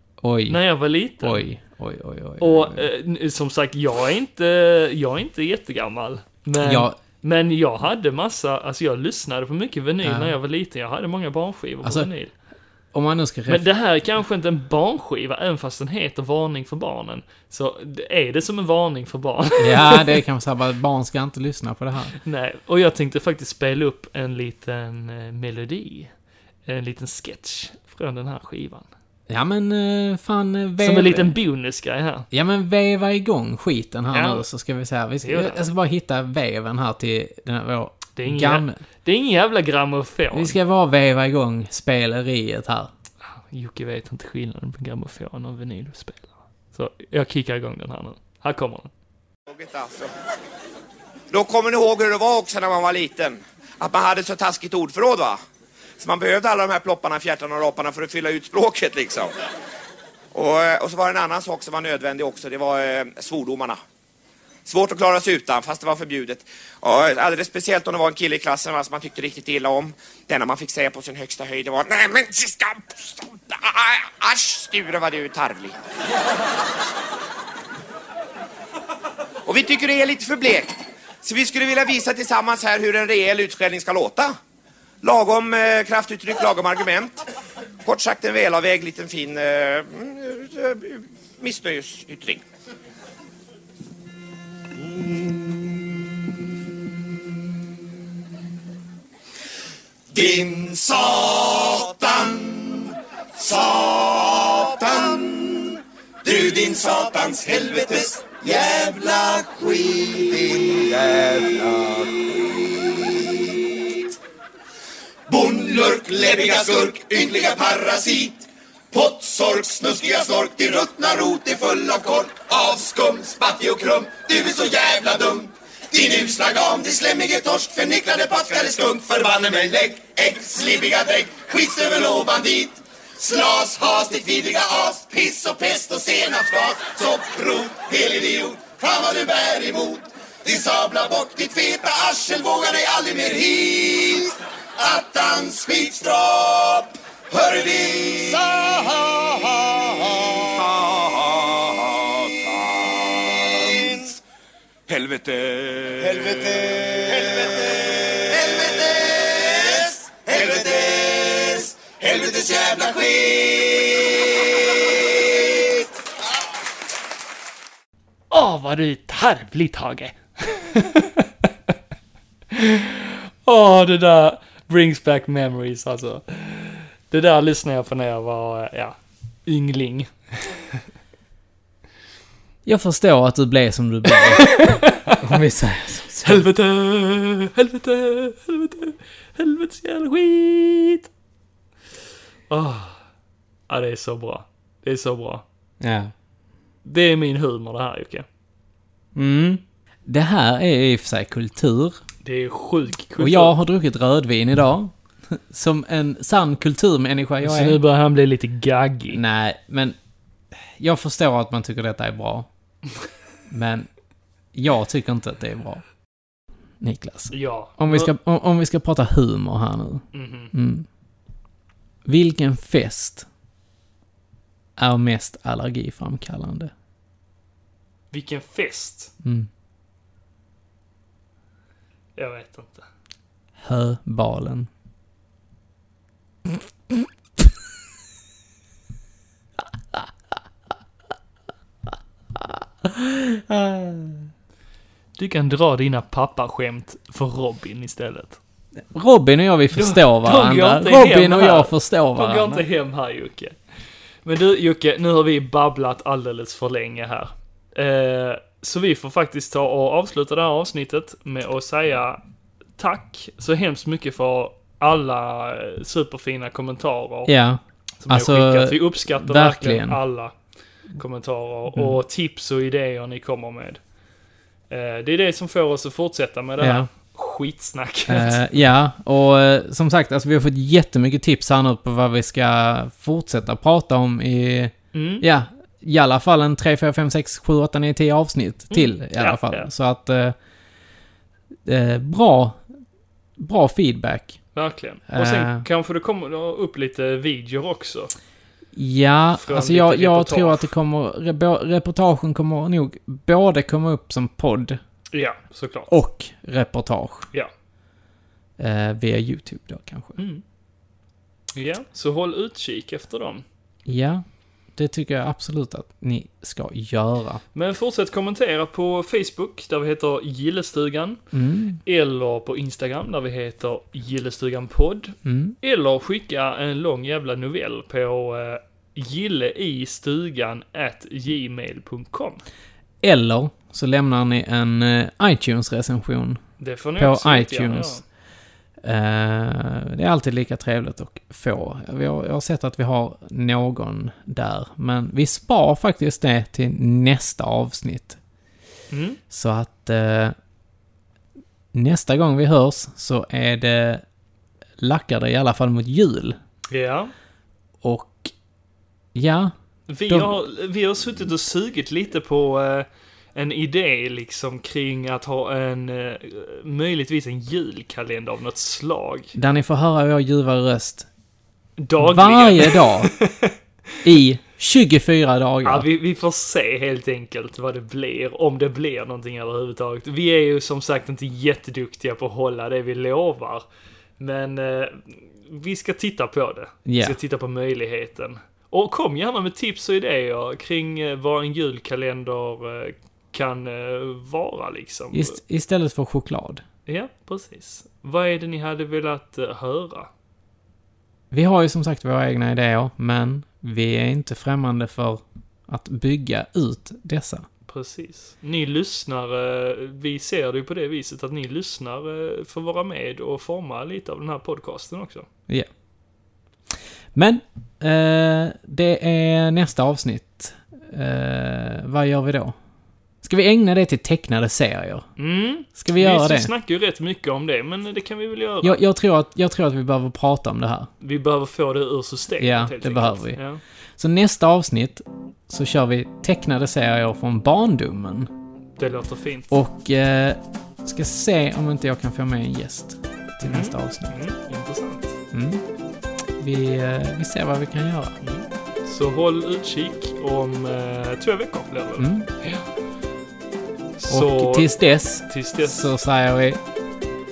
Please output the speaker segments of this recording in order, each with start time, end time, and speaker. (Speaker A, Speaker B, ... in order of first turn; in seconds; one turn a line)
Speaker A: 0.2-0.6
Speaker B: 0.5-1.4
Speaker A: 1.2-2.9
Speaker B: 2.4-12.3
Speaker A: 6.6-7.0
Speaker A: 10.0-10.4
Speaker A: 11.8-12.1
Speaker A: 12.9-13.7
Speaker B: 13.5-20.2
Speaker A: 19.6-22.2
Speaker B: 22.2-26.1
Speaker B: 26.7-28.9
Speaker A: 29.3-31.4
Speaker B: 30.8-32.3
Speaker A: 32.3-38.8
Speaker B: 34.1-34.5
Speaker B: 35.2-35.7
Speaker B: 38.2-40.6
Speaker A: 40.3-42.9
Speaker B: 43.2-48.9
Speaker C: 49.5-50.1
Speaker C: 51.3-55.4
Speaker C: 56.0-59.4
Speaker C: 60.3-63.8
Speaker C: 64.7-75.8
Speaker C: 79.5-84.4
Speaker C: 85.0-87.2
Speaker C: 87.8-92.4
Speaker C: 95.0-95.9
Speaker C: 100.1-114.1
Speaker C: 115.3-154.2
Speaker C: 154.9-165.9
Speaker B: 168.3-171.3
Speaker B: 172.5-180.5
Speaker A: 182.7-186.5
Speaker B: 184.4-185.2
Speaker B: 186.2-191.1
Speaker B: 192.5-193.0
Speaker B: 193.7-195.4
Speaker A: 195.8-196.1
Speaker B: 196.8-198.3
Speaker A: 199.2-202.0
Speaker B: 202.2-203.6
Speaker A: 203.2-207.8
Speaker B: 207.4-209.2
Speaker A: 209.1-209.9
Speaker A: 210.6-212.5
Speaker A: 213.5-213.9
Speaker A: 214.5-215.8
Speaker A: 216.8-220.9
Speaker B: 217.3-218.1
Speaker B: 220.1-220.5
Speaker A: 222.1-223.3
Speaker A: 224.8-226.7
Speaker B: 228.1-229.1
Speaker A: 229.2-229.5
Speaker B: 232.2-232.9
Speaker A: 233.6-234.7
Speaker A: 242.4-244.3
Speaker B: 245.2-248.4
Speaker A: 248.9-252.7
Speaker B: 249.7-253.6
Speaker B: 254.2-262.2
Speaker B: 262.8-267.3
Speaker A: 267.3-270.0
Speaker B: 268.0-270.4
Speaker B: 270.9-273.8
Speaker B: 274.7-278.4
Speaker A: 276.6-276.9
Speaker A: 278.1-290.4
Speaker B: 284.9-285.2
Speaker B: 288.7-289.7
Speaker A: 291.7-292.6
Speaker A: 293.4-294.4
Speaker B: 294.6-298.1
Speaker A: 295.1-295.7
Speaker A: 298.7-304.8
Speaker B: 299.4-300.7
Speaker B: 305.1-305.9
Speaker A: 305.9-307.3
Speaker A: 308.6-310.2
Speaker B: 310.2-310.4
Speaker B: 311.6-313.4
Speaker A: 313.9-314.2
Speaker A: 314.7-317.4
Speaker B: 317.5-321.2
Speaker A: 321.3-321.8
Speaker B: 321.9-332.4
Speaker A: 325.2-325.6
Speaker A: 333.0-336.4
Speaker B: 336.6-338.0
Speaker A: 337.0-338.0
Speaker A: 338.8-348.2
Speaker B: 348.9-349.2
Speaker A: 349.3-350.4
Speaker A: 351.7-354.0
Speaker A: 354.8-356.4
Speaker B: 356.7-357.1
Speaker A: 357.8-358.3
Speaker A: 359.1-359.5
Speaker B: 359.9-369.3
Speaker A: 360.1-360.4
Speaker A: 369.4-371.1
Speaker B: 371.8-373.6
Speaker A: 372.0-373.1
Speaker A: 374.0-375.9
Speaker B: 375.6-383.6
Speaker B: 384.2-395.4
Speaker A: 386.9-387.2
Speaker A: 395.1-396.6
Speaker B: 396.9-400.1
Speaker A: 401.3-407.4
Speaker B: 407.7-415.3
Speaker A: 417.1-422.6
Speaker A: 423.2-425.1
Speaker B: 425.2-428.8
Speaker A: 425.8-426.5
Speaker A: 428.6-430.9
Speaker B: 431.0-433.6
Speaker A: 432.4-433.4
Speaker A: 434.0-438.3
Speaker B: 438.8-439.5
Speaker A: 439.5-444.1
Speaker B: 443.4-445.2
Speaker A: 445.3-445.6
Speaker A: 446.4-448.2
Speaker B: 448.2-452.6
Speaker A: 452.0-452.3
Speaker B: 454.0-454.7
Speaker A: 454.1-456.6
Speaker B: 455.3-455.9